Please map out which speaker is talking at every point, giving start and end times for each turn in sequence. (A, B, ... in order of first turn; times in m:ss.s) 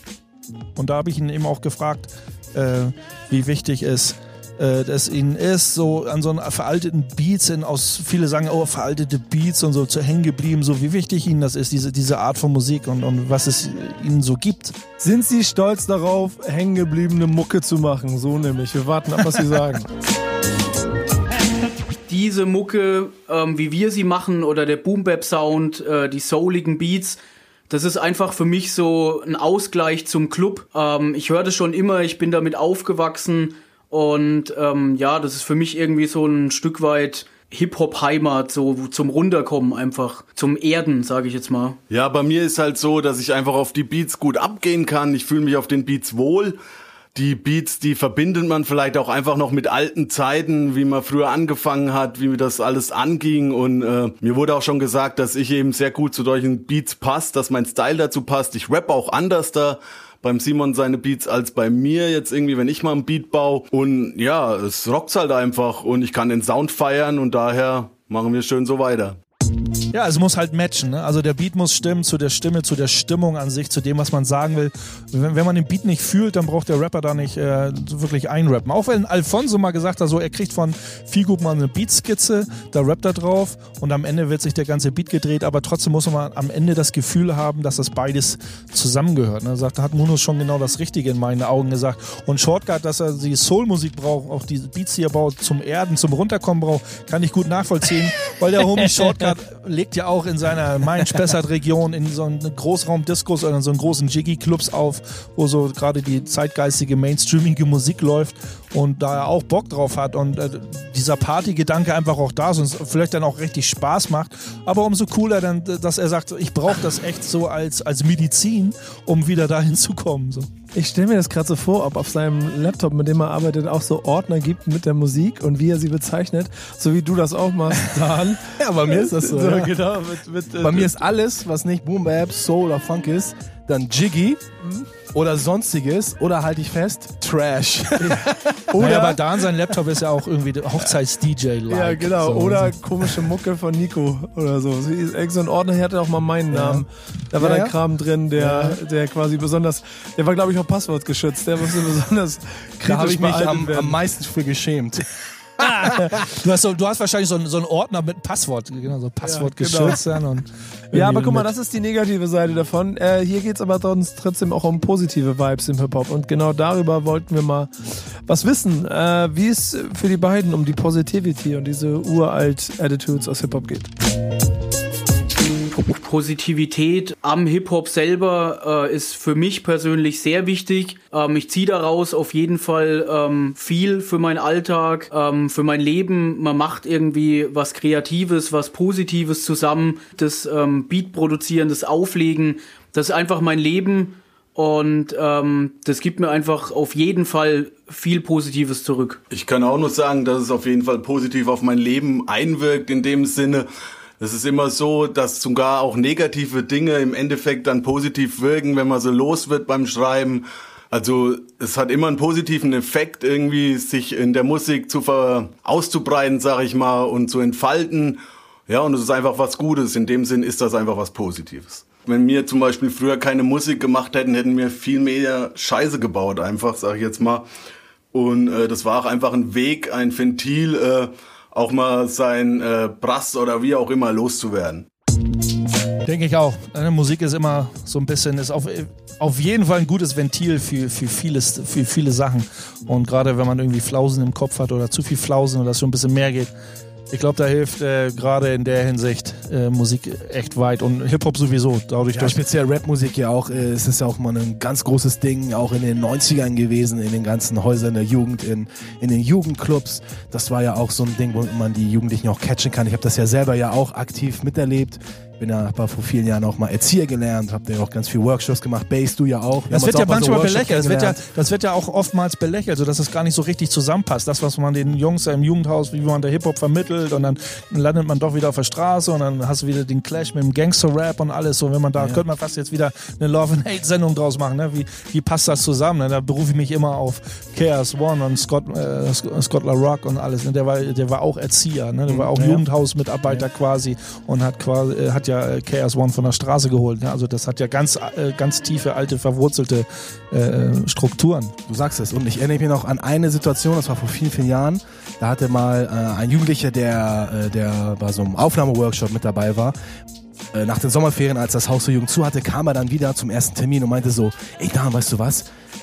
0:00.8-0:14.8 A
0:15.0-0:19.9 B
0:22.1-0:27.2 C
0:27.7-0:41.8 C
0:41.9-0:46.6 D
0:47.1-1:09.2 D
1:09.9-2:00.5 A
2:00.7-2:11.0 B
2:08.4-2:09.8 E
2:10.6-2:14.4 E
2:15.1-2:18.5 E
2:18.5-2:19.2 B
2:18.8-2:22.7 A
2:21.7-2:34.0 B
2:26.5-2:26.8 E
2:27.4-2:27.7 A
2:32.8-2:35.0 E
2:35.6-2:36.0 B
2:35.8-2:41.5 A
2:39.2-2:40.0 B
2:40.9-2:53.9 B
2:55.9-3:19.2 C
3:19.3-3:23.7 D
3:24.2-3:47.4 D
3:48.1-3:54.9 D
3:56.0-4:06.5 A
4:07.1-4:12.4 A
4:12.1-4:31.2 E
4:29.7-5:01.5 A
4:42.0-4:42.2 E
4:52.1-4:52.6 E
5:01.7-5:09.8 E
5:10.5-5:15.4 E